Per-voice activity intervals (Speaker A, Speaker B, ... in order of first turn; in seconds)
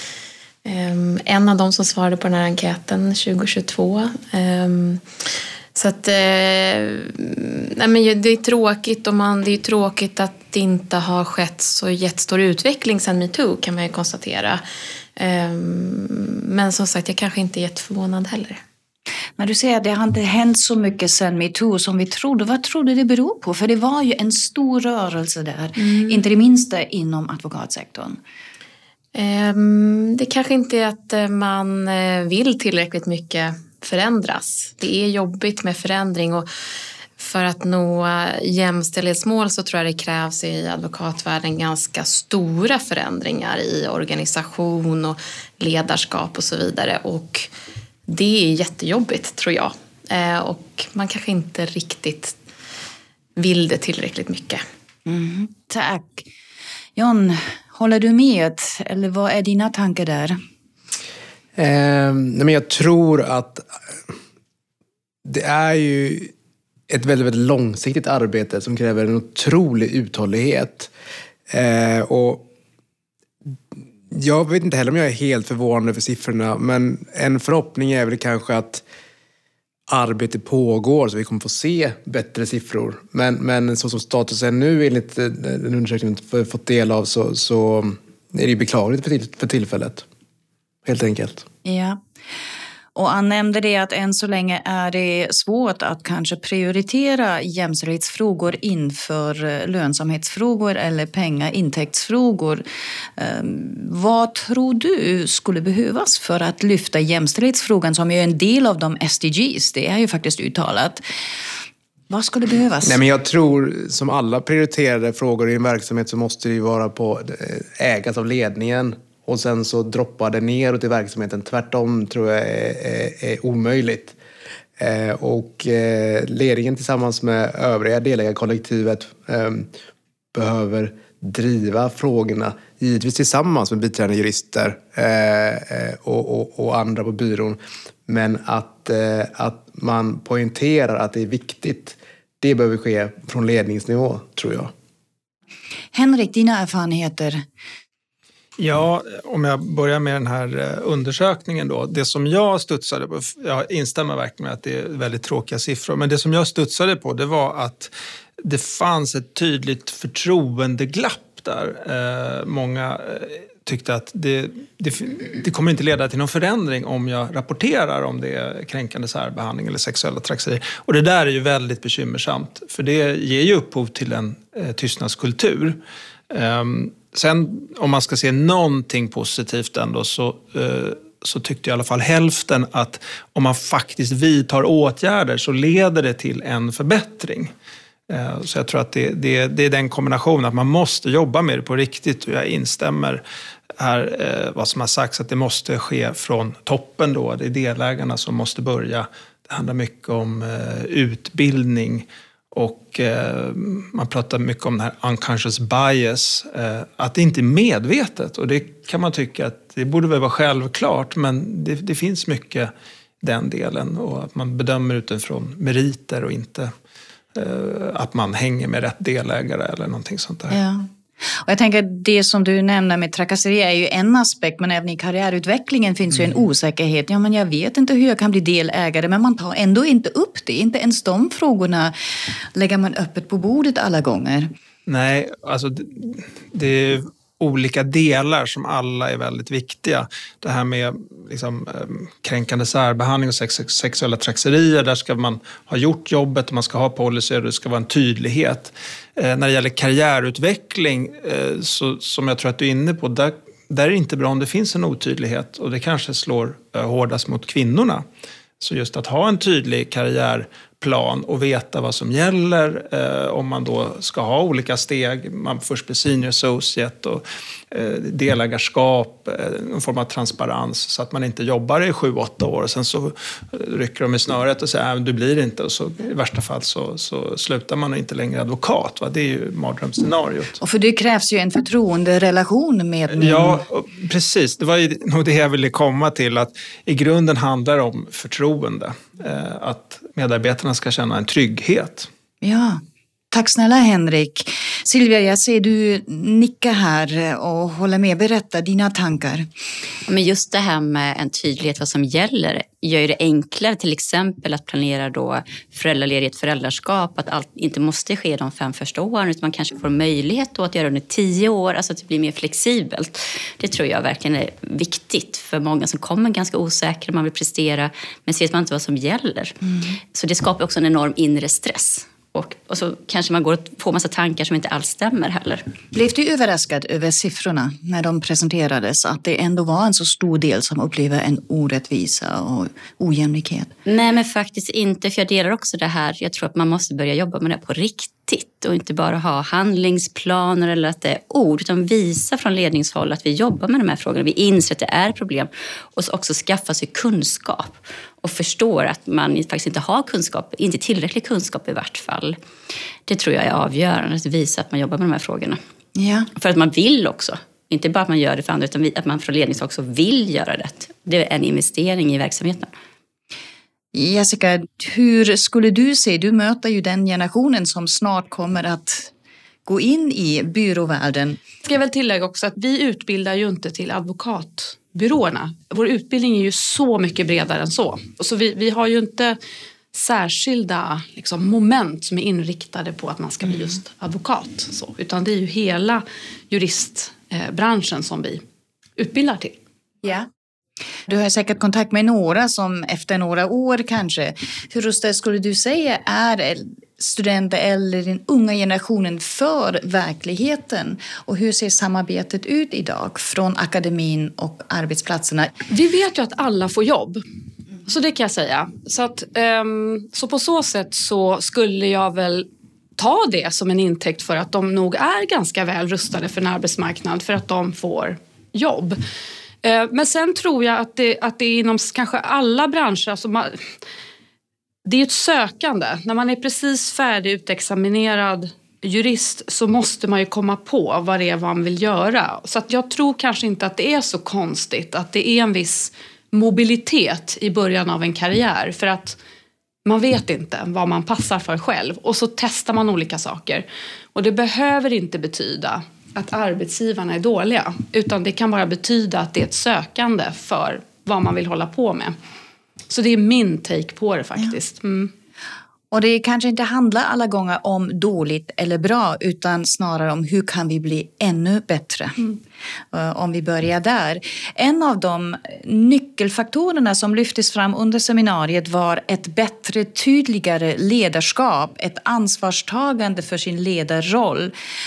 Speaker A: 0.6-5.0, 5.7-14.6, 15.2-18.6, 25.8-26.2, 29.1-36.5, 37.2-47.5, 48.1-52.4, 53.4-54.6
Speaker B: 19.4-28.2, 55.0-56.3, 57.0-60.4, 91.6-92.0, 92.9-102.6, 103.2-111.0, 112.1-113.0, 145.9-147.4, 220.5-231.9, 232.5-234.5, 280.6-283.6, 292.4-299.5, 319.6-320.0, 325.9-333.7, 355.9-356.3, 363.9-369.1, 369.6-371.4, 391.1-405.5, 455.9-462.3, 462.9-474.5
Speaker C: 61.5-63.6, 65.2-66.3, 66.9-70.9, 71.5-72.5, 74.1-78.8, 79.9-90.0, 90.8-91.5, 112.8-124.1, 124.8-129.7, 130.3-144.7
Speaker D: 148.6-187.5, 188.1-193.2, 193.8-216.7, 217.3-220.6, 234.8-258.0, 258.6-280.6, 283.1-292.1
Speaker E: 300.1-319.5, 320.1-325.6, 333.9-352.4, 353.1-355.6, 356.4-362.7
Speaker F: 371.6-379.4, 379.9-388.4, 389.0-389.6, 405.7-407.2, 407.9-419.0, 419.6-423.6, 424.8-439.2, 439.8-452.1, 452.9-455.1